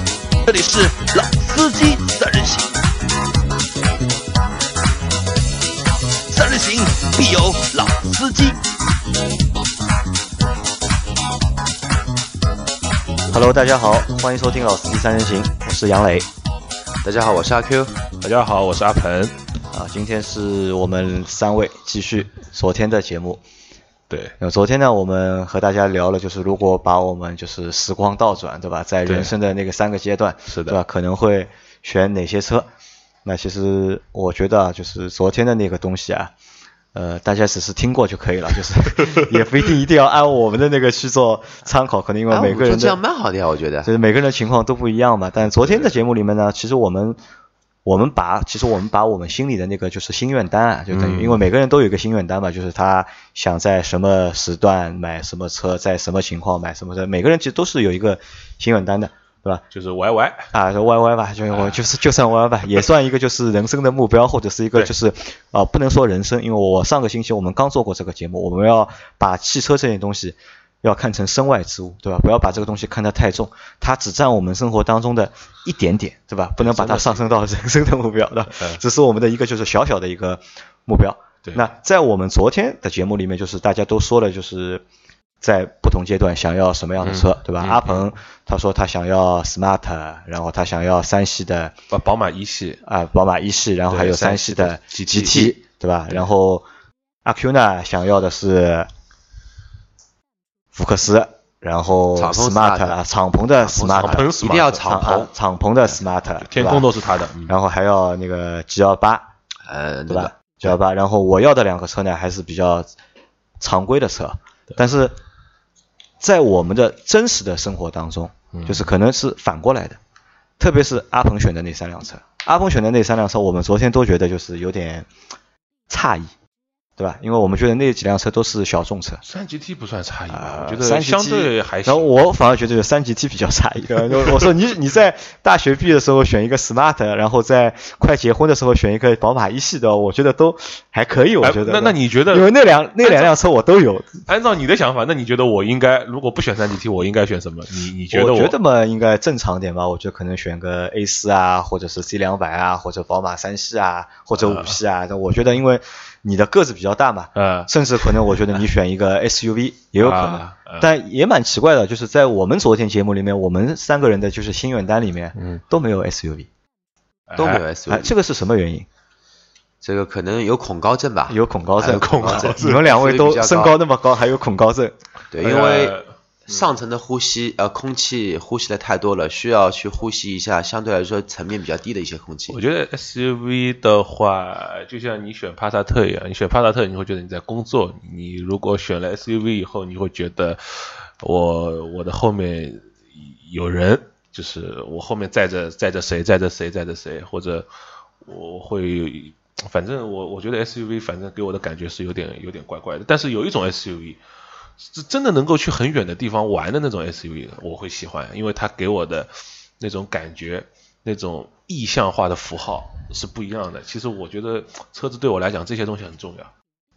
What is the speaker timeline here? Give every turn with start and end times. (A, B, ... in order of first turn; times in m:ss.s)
0:00.4-0:02.8 A
0:06.3-0:08.6 A
0:13.3-0:16.3 B
0:17.0-0:18.0 C
0:18.2-0:19.4 D
0:19.7-0:23.4 B
0:24.1-0:24.4 D
0:24.4-0:32.7 B
0:29.1-0:29.3 D
0:30.5-0:30.8 D
0:33.2-0:36.3 B
0:36.9-0:43.0 B
0:39.0-0:39.3 D
0:42.3-0:43.9 C
0:43.8-0:47.2 B
0:47.8-0:59.6 B
0:50.9-0:51.3 D
0:59.7-1:00.5 D
1:00.5-1:24.8 B
1:01.5-1:01.8 D
1:16.6-1:17.4 D
1:18.5-1:18.8 D
1:25.4-1:31.8 B
1:27.0-1:28.1 D
1:31.9-1:32.8 D
1:32.8-1:36.7 B
1:33.9-1:35.5 D
1:35.1-1:35.5 C
1:37.2-1:38.9 B
1:40.7-1:46.9 B
1:42.1-1:43.0 C
1:43.6-1:45.3 C
1:43.9-1:45.2 D
1:46.4-1:47.6 D
1:47.5-1:49.3 B
1:49.7-1:50.7 C
1:50.1-1:52.9 B
1:53.6-1:55.2 B
1:56.2-2:00.0 B
1:58.5-1:58.9 D
2:00.6-2:05.1 B
2:05.9-2:06.3 B
2:07.0-2:09.2 B
2:09.2-2:12.1 D
2:10.3-2:24.2 B
2:21.4-2:23.3 D
2:24.3-2:28.6 D
2:28.1-2:46.5 B
2:34.4-2:34.8 D
2:37.4-2:38.4 D
2:40.0-2:40.9 D
2:45.4-2:45.6 D
2:47.3-2:47.6 D
2:47.4-2:48.1 C
2:47.9-2:48.9 B
2:49.8-2:53.8 C
2:51.3-2:55.0 B
2:51.9-2:52.9 D
2:55.3-2:56.0 C
2:55.4-2:56.7 D
2:56.5-3:02.6 C
3:02.5-3:17.7 D
3:18.2-3:24.2 D
3:24.8-3:36.5 D